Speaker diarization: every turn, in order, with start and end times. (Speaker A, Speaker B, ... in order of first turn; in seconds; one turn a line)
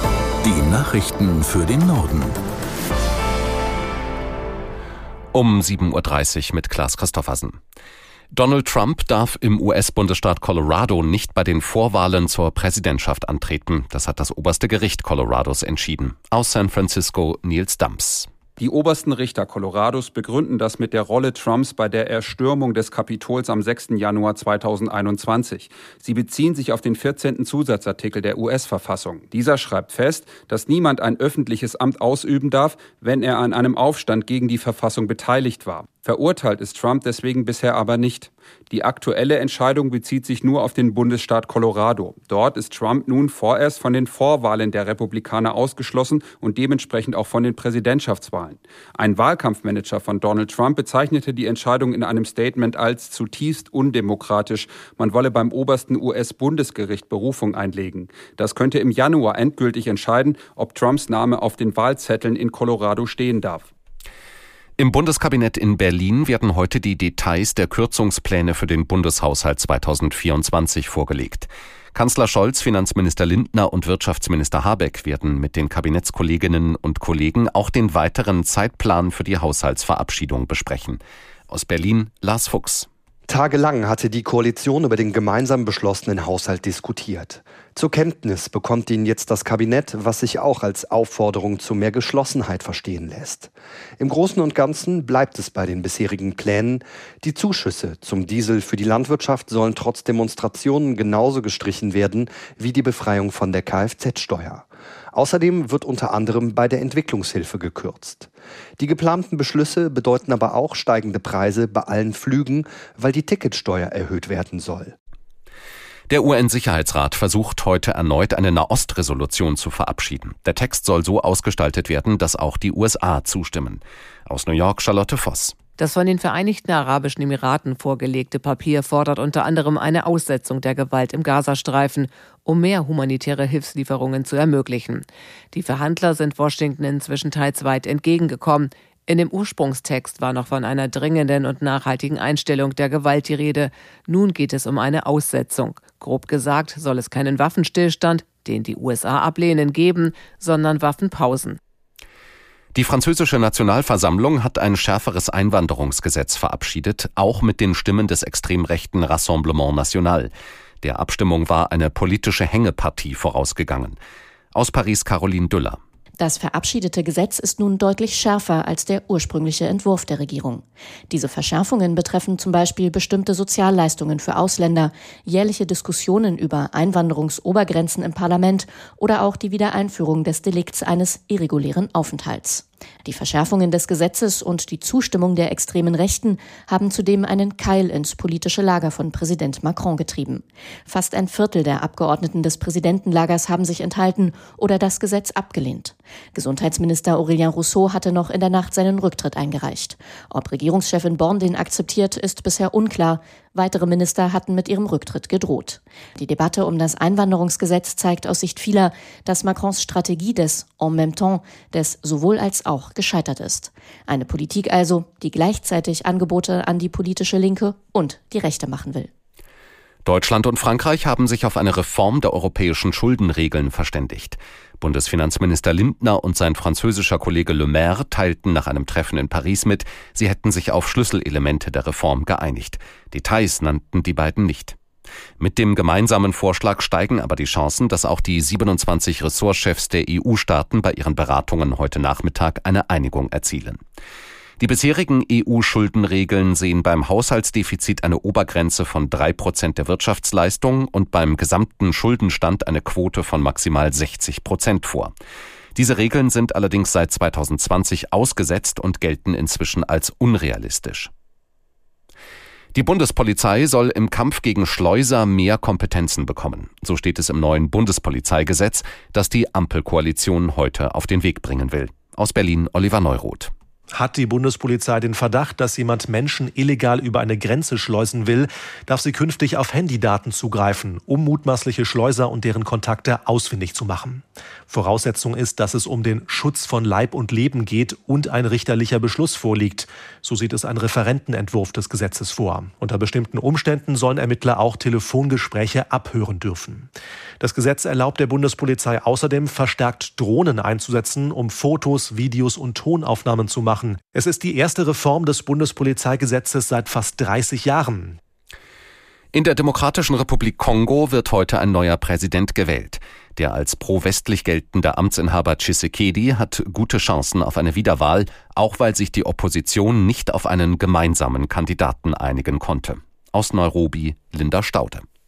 Speaker A: 0.4-2.4
Speaker B: 5.3-7.6
Speaker B: 8.3-18.3
Speaker C: 18.6-63.7
Speaker B: 64.8-82.9
Speaker D: 83.3-114.9
Speaker B: 116.1-125.6
Speaker E: 125.8-151.6
Speaker B: 152.7-164.0
Speaker B: 164.5-165.8
Speaker F: 166.2-219.1
Speaker B: 220.0-234.8
Speaker B: 235.4-243.8
Speaker B: 244.6-255.1
Speaker B: 255.7-261.1
Speaker B: 262.7-273.5
Speaker G: 273.9-308.2
Speaker B: 309.3-325.0